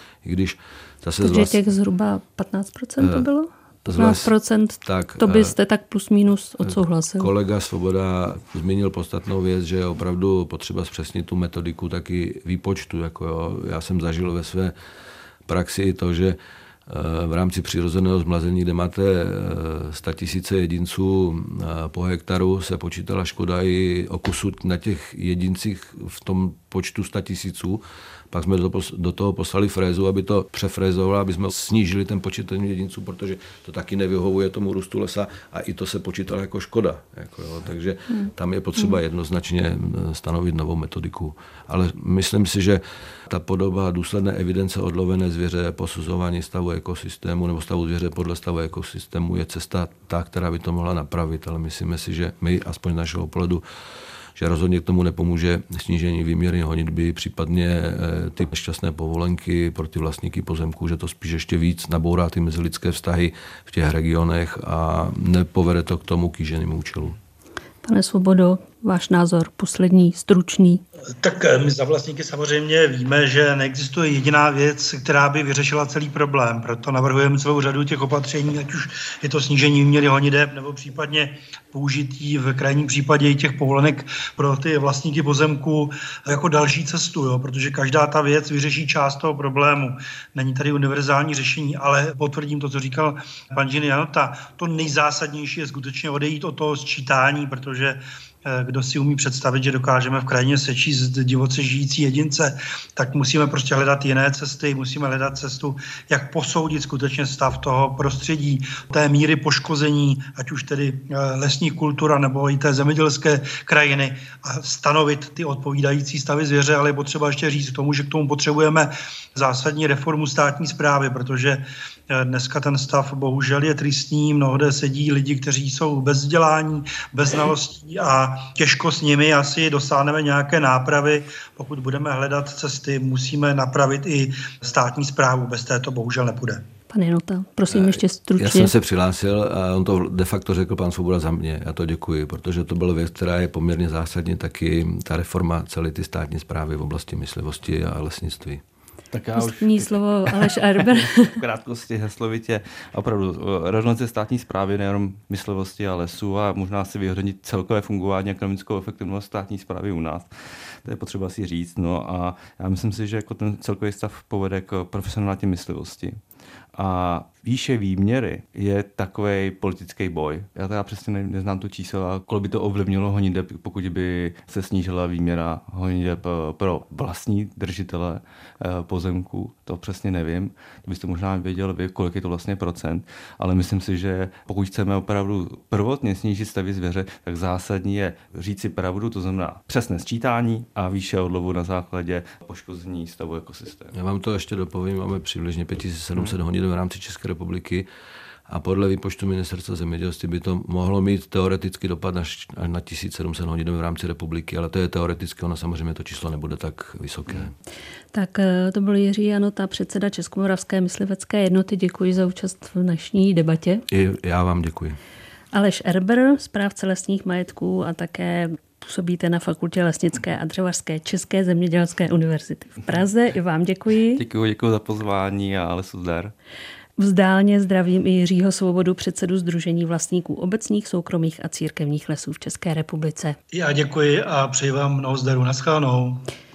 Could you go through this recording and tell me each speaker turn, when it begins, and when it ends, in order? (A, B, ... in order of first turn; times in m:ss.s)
0:00.2-0:01.6 A
0:01.2-0:07.3 B
0:03.8-0:05.5 A
0:07.2-0:14.7 A
0:15.5-0:53.6 A
0:54.4-1:07.2 A
1:07.8-1:10.8 B
1:11.2-2:16.6 C
2:16.9-2:18.7 B
2:17.7-2:28.6 A
2:29.1-2:40.3 D
2:29.4-2:31.4 B
2:40.8-2:46.2 D
2:46.7-3:13.9 D
3:13.9-3:17.9 A
3:18.5-3:27.5 A
3:28.1-3:33.8 B
3:33.9-3:35.0 A
3:35.5-3:44.2 B
3:44.2-3:46.3 D
3:47.0-3:53.4 B
3:53.5-3:56.2 C